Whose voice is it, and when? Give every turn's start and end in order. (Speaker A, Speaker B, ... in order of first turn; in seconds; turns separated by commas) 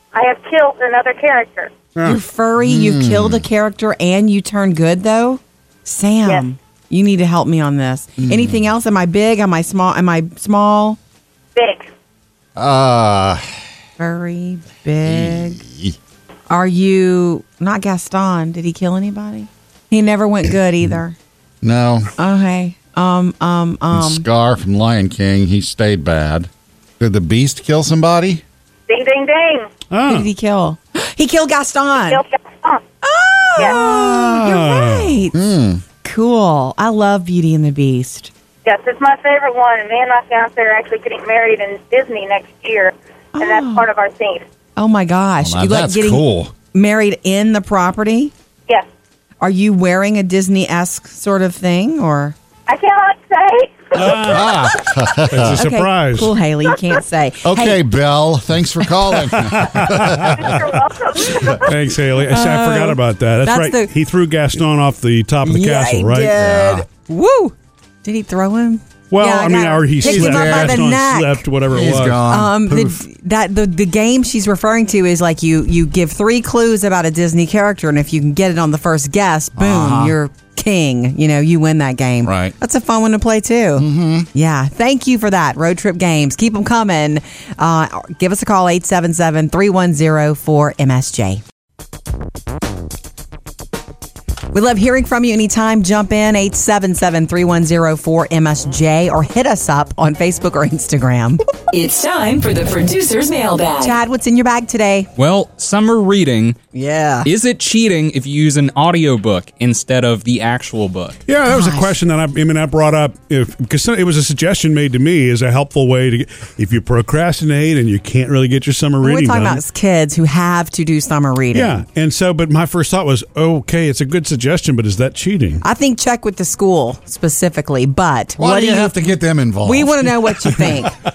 Speaker A: 0.1-1.7, Speaker B: 2.0-11.0, Speaker C: 2.6-3.5, Speaker C: 8.2-8.6, Speaker A: 11.5-11.9, Speaker C: 12.6-13.4, Speaker B: 14.0-15.6, Speaker C: 15.0-15.9, Speaker B: 16.5-21.1, Speaker C: 21.6-22.1, Speaker B: 22.2-24.2, Speaker C: 23.9-26.5, Speaker C: 27.0-28.4, Speaker A: 28.9-29.7, Speaker D: 29.9-30.3, Speaker B: 30.1-32.2, Speaker A: 32.1-32.8, Speaker B: 33.0-35.3, Speaker D: 33.6-35.2, Speaker C: 35.3-35.8, Speaker B: 36.0-38.3, Speaker A: 38.6-44.4, Speaker B: 43.4-43.9, Speaker B: 44.8-48.3, Speaker C: 45.4-46.5, Speaker B: 49.4-52.3, Speaker A: 52.7-54.4, Speaker D: 53.9-54.7, Speaker C: 54.1-55.5, Speaker D: 55.3-56.3, Speaker B: 55.4-57.8, Speaker C: 57.4-60.5, Speaker D: 59.4-60.7, Speaker A: 60.2-61.7, Speaker D: 61.4-66.3, Speaker B: 62.3-63.9, Speaker B: 65.4-71.4, Speaker C: 66.3-66.8, Speaker D: 69.1-72.2, Speaker C: 70.0-70.9, Speaker C: 71.7-73.0, Speaker B: 72.3-91.4, Speaker C: 79.5-80.2, Speaker C: 82.2-82.5, Speaker C: 83.8-84.3, Speaker B: 94.5-101.4, Speaker E: 101.7-104.0, Speaker B: 103.8-105.1, Speaker F: 105.2-106.6, Speaker B: 106.7-107.3, Speaker F: 107.2-111.2, Speaker D: 111.3-119.6, Speaker B: 111.5-112.0, Speaker B: 119.0-121.8, Speaker D: 121.5-125.6, Speaker B: 125.6-130.9, Speaker C: 128.4-130.7